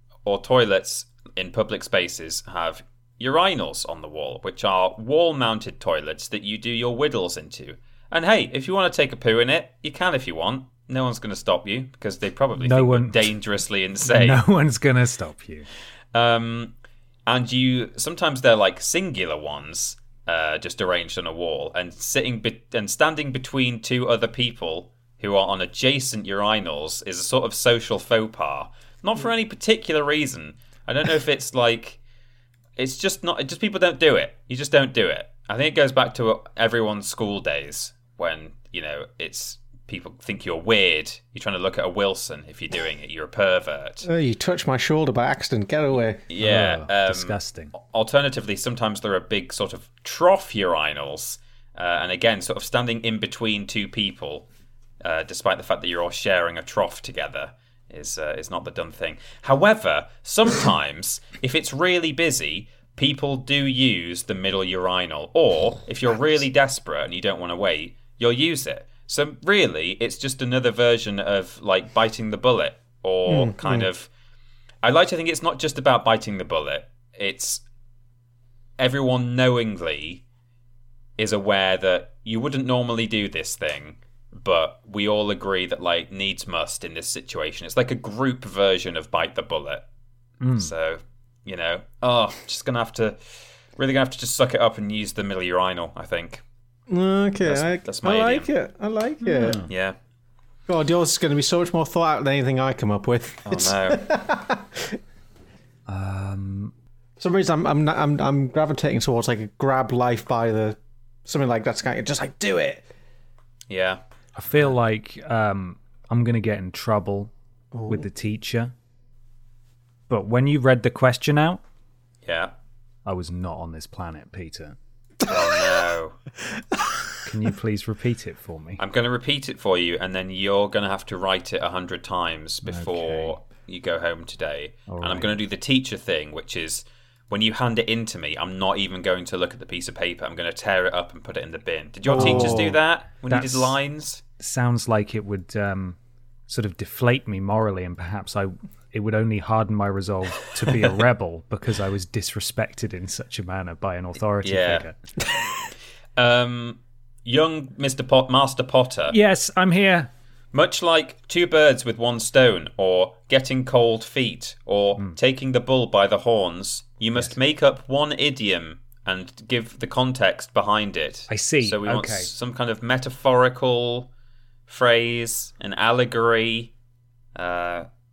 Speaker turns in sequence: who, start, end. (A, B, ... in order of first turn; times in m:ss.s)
0:00.2-0:14.4 A
0:12.6-0:13.3 B
0:14.0-0:15.7 B
0:16.1-0:16.7 A
0:17.3-0:32.0 A
0:32.8-0:44.1 A
0:44.0-0:46.2 C
0:46.3-0:54.5 A
0:46.4-0:47.7 B
0:55.0-1:14.1 A
1:13.3-1:13.9 C
1:14.8-1:17.6 A
1:18.8-1:20.2 A
1:21.2-1:29.8 A
1:30.4-1:30.7 B
1:30.6-1:36.4 A
1:36.9-1:39.6 C
1:37.4-1:38.5 A
1:39.2-1:39.7 B
1:39.7-1:40.0 A
1:40.7-1:45.0 C
1:43.5-1:44.0 A
1:45.9-1:46.7 B
1:47.2-1:52.8 C
1:53.7-1:54.0 A
1:54.4-1:57.3 B
1:57.7-1:58.1 C
1:57.9-1:58.7 B
2:00.1-2:01.6 B
2:02.2-2:02.5 A
2:03.1-2:04.8 B
2:05.3-2:06.2 A
2:07.2-2:08.8 B
2:08.8-2:24.2 A
2:12.6-2:13.3 B
2:14.9-2:15.3 B
2:22.0-2:22.8 C
2:22.2-2:22.7 B
2:23.3-2:23.8 B
2:24.4-2:26.0 B
2:26.5-2:35.0 B
2:34.4-2:34.9 A
2:36.2-2:39.2 A
2:39.1-2:40.1 B
2:40.5-2:54.1 A
2:51.3-2:52.3 B
2:54.7-2:56.7 A
2:57.4-2:57.9 A